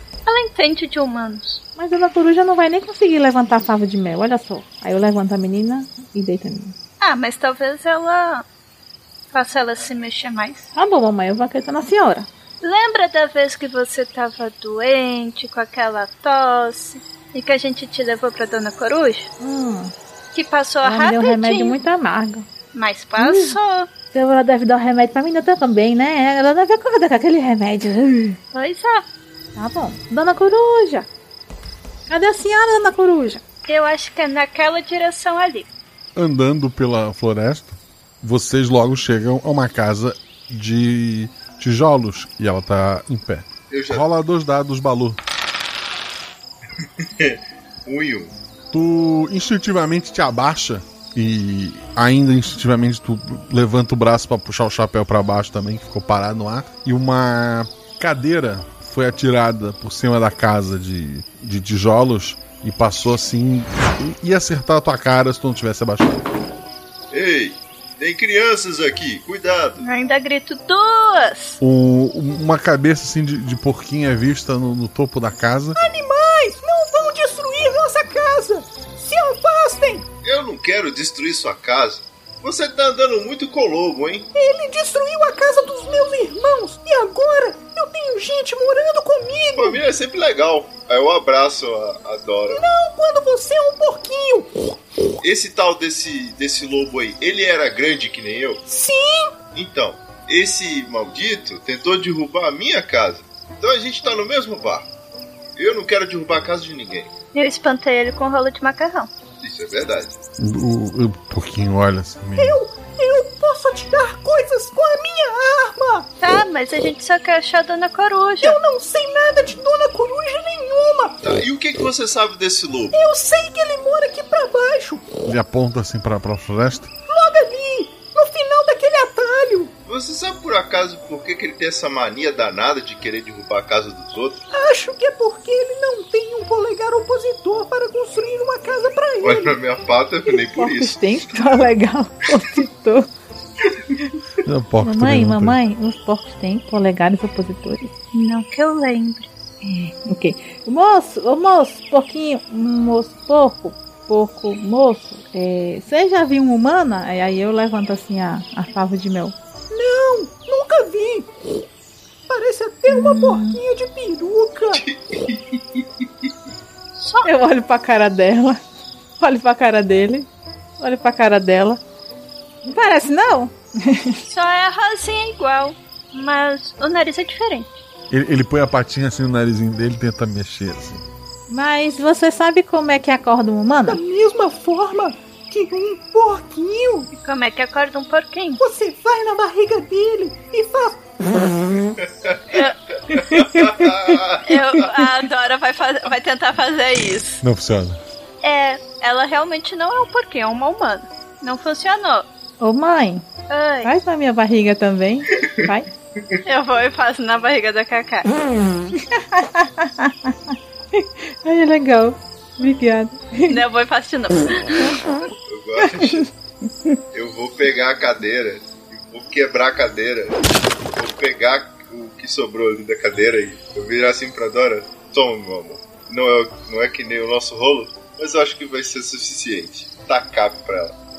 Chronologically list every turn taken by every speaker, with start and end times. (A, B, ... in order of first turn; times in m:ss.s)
0:00.3-0:01.6 A
0:01.8-0:06.8 B
0:07.0-0:08.4 A
0:09.3-0:10.7 A
0:10.8-0:12.3 B
0:12.6-0:19.3 A
0:19.4-0:19.9 B
0:20.3-0:21.8 A
0:20.8-0:22.5 B
0:22.7-0:23.9 A
0:23.2-0:23.6 B
0:24.1-0:28.4 B
0:28.5-0:29.0 A
0:29.6-0:31.1 B
0:32.1-0:33.4 B
0:33.7-0:35.7 A
0:36.2-0:45.2 C
0:43.7-0:44.0 D
0:46.8-0:48.4 D
0:48.7-1:06.2 C
1:07.1-1:09.8 D
1:09.8-1:11.6 A
1:11.6-1:15.8 C
1:15.8-1:20.0 E
1:20.2-1:24.3 D
1:24.4-1:29.6 E
1:29.5-1:32.6 D
1:32.6-1:34.7 E
1:35.2-1:38.6 D
1:38.7-1:39.3 E
1:39.5-1:44.9 D
1:45.6-1:47.1 D
1:47.3-1:49.1 A
1:49.4-1:50.2 D
1:50.4-1:52.6 C
1:52.4-1:56.0 E
1:56.2-1:58.6 A
1:58.4-2:01.2 E
2:01.2-2:03.0 D
2:03.0-2:05.0 E
2:05.2-2:07.0 C
2:07.1-2:09.7 E
2:09.9-2:14.4 D
2:14.5-2:19.3 E
2:19.2-2:21.6 D
2:20.3-2:23.1 B
2:24.4-2:25.6 C
2:24.8-2:27.9 B
2:28.1-2:29.3 A
2:29.6-2:39.4 B
2:39.7-2:41.3 E
2:42.3-2:44.6 E
2:42.9-2:43.6 B
2:44.7-2:46.3 D
2:47.0-2:47.3 A
2:47.2-2:48.6 B
2:49.2-2:50.3 B
2:50.8-2:51.8 B
2:52.6-2:54.2 B
2:54.3-2:57.8 A
2:58.1-3:01.0 C
3:01.5-3:04.0 B
3:03.9-3:07.1 E
3:07.1-3:08.6 A
3:08.6-3:11.0 E
3:12.0-3:12.6 D
3:13.1-3:14.7 D
3:14.5-3:17.4 A
3:17.4-3:18.0 C
3:18.4-3:22.3 A
3:22.6-3:23.2 B
3:23.5-3:23.9 A
3:23.8-3:25.9 B
3:26.5-3:28.3 A
3:29.0-3:33.6 B
3:33.5-3:35.0 A
3:35.5-3:36.3 D
3:35.8-3:36.3 B
3:37.1-3:40.4 D
3:41.0-3:51.0 D